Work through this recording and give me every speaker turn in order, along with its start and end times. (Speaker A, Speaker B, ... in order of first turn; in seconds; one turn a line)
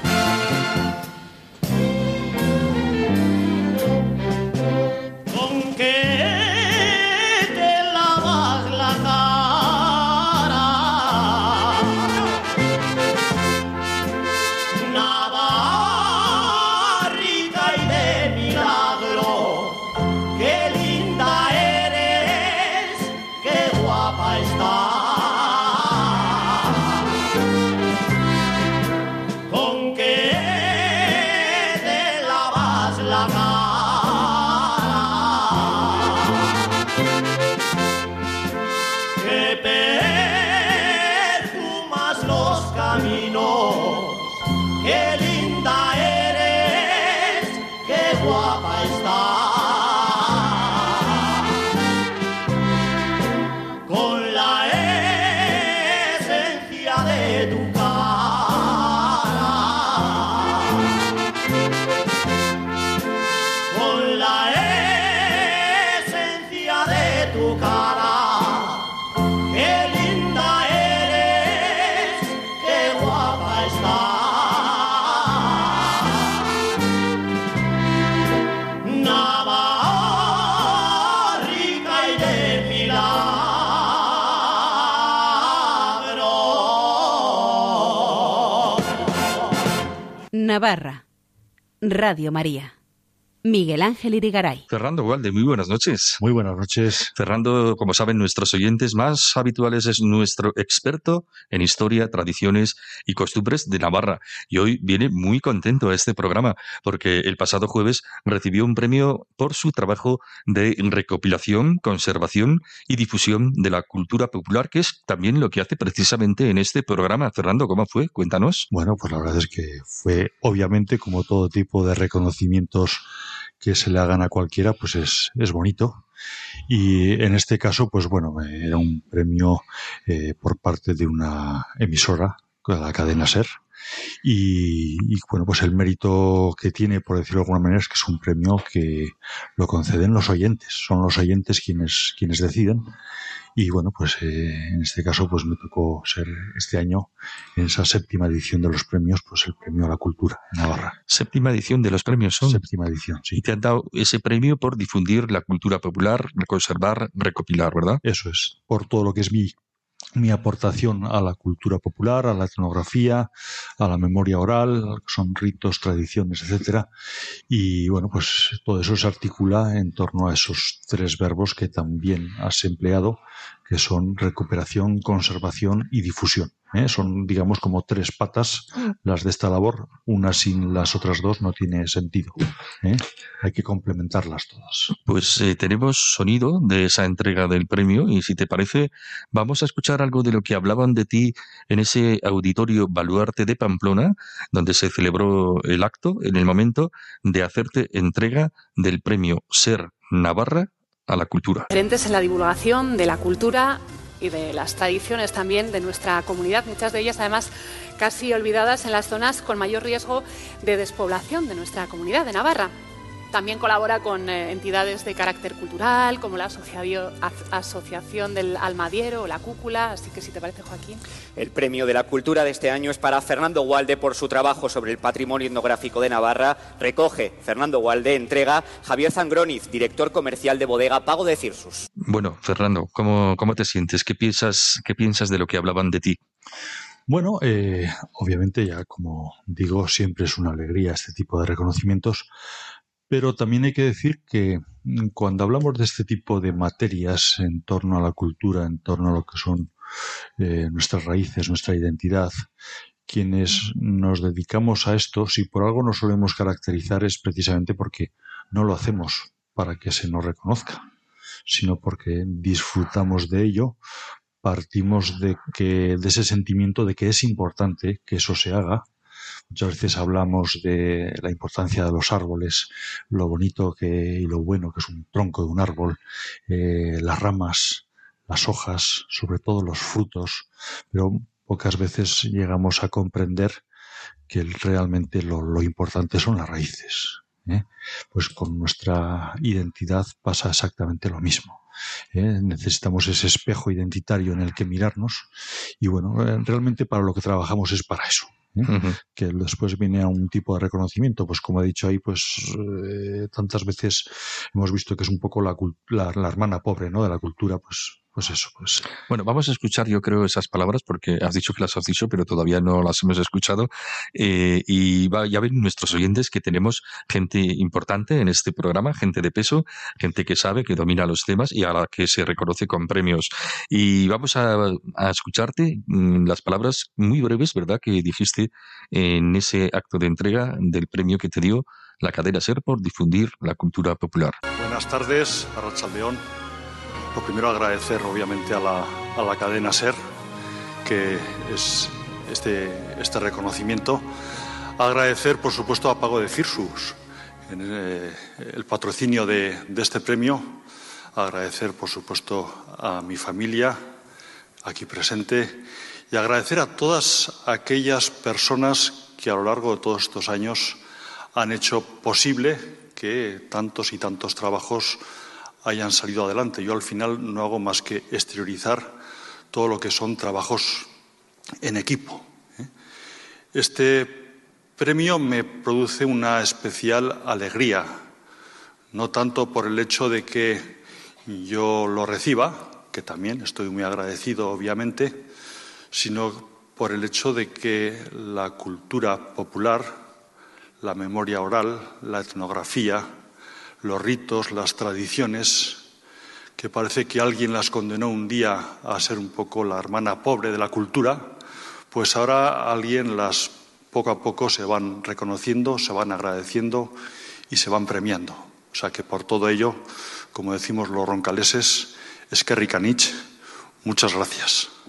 Speaker A: 90.3-91.0
Speaker A: 91.8-92.7
Speaker A: 93.5-94.7
Speaker B: 94.7-96.2
Speaker C: 96.2-97.1
Speaker B: 97.2-118.7
Speaker C: 118.7-123.0
Speaker C: 123.6-126.0
Speaker C: 126.7-133.5
Speaker C: 134.2-142.9
Speaker C: 143.6-151.0
Speaker B: 151.1-152.6
Speaker C: 152.4-153.4
Speaker B: 153.3-158.0
Speaker C: 158.0-159.6
Speaker C: 160.2-166.9
Speaker C: 167.5-184.9
Speaker B: 184.9-201.7
Speaker D: 201.7-212.7
Speaker D: 213.3-221.0
Speaker E: 221.4-231.9
Speaker B: 232.0-236.2
Speaker C: 237.1-242.3
Speaker C: 243.1-249.7
Speaker C: 250.4-252.4
Speaker C: 253.1-260.8
Speaker C: 261.5-263.8
Speaker C: 264.4-268.9
Speaker C: 269.5-283.6
Speaker C: 284.3-291.6
Speaker C: 292.1-308.9
Speaker B: 298.7-299.0
Speaker B: 309.1-334.4
Speaker F: 334.6-336.2
Speaker F: 337.1-340.0
Speaker F: 340.8-344.1
Speaker F: 344.8-350.6
Speaker F: 351.1-353.8
Speaker F: 354.6-360.8
Speaker F: 361.3-365.0
Speaker F: 365.6-369.0
Speaker F: 369.5-370.9
Speaker F: 371.6-372.7
Speaker F: 373.5-378.0
Speaker F: 378.9-385.3
Speaker F: 385.9-390.0
Speaker F: 390.8-393.1
Speaker F: 393.8-395.9
Speaker F: 396.6-401.4
Speaker F: 401.9-407.0
Speaker F: 407.5-413.2
Speaker F: 413.8-414.7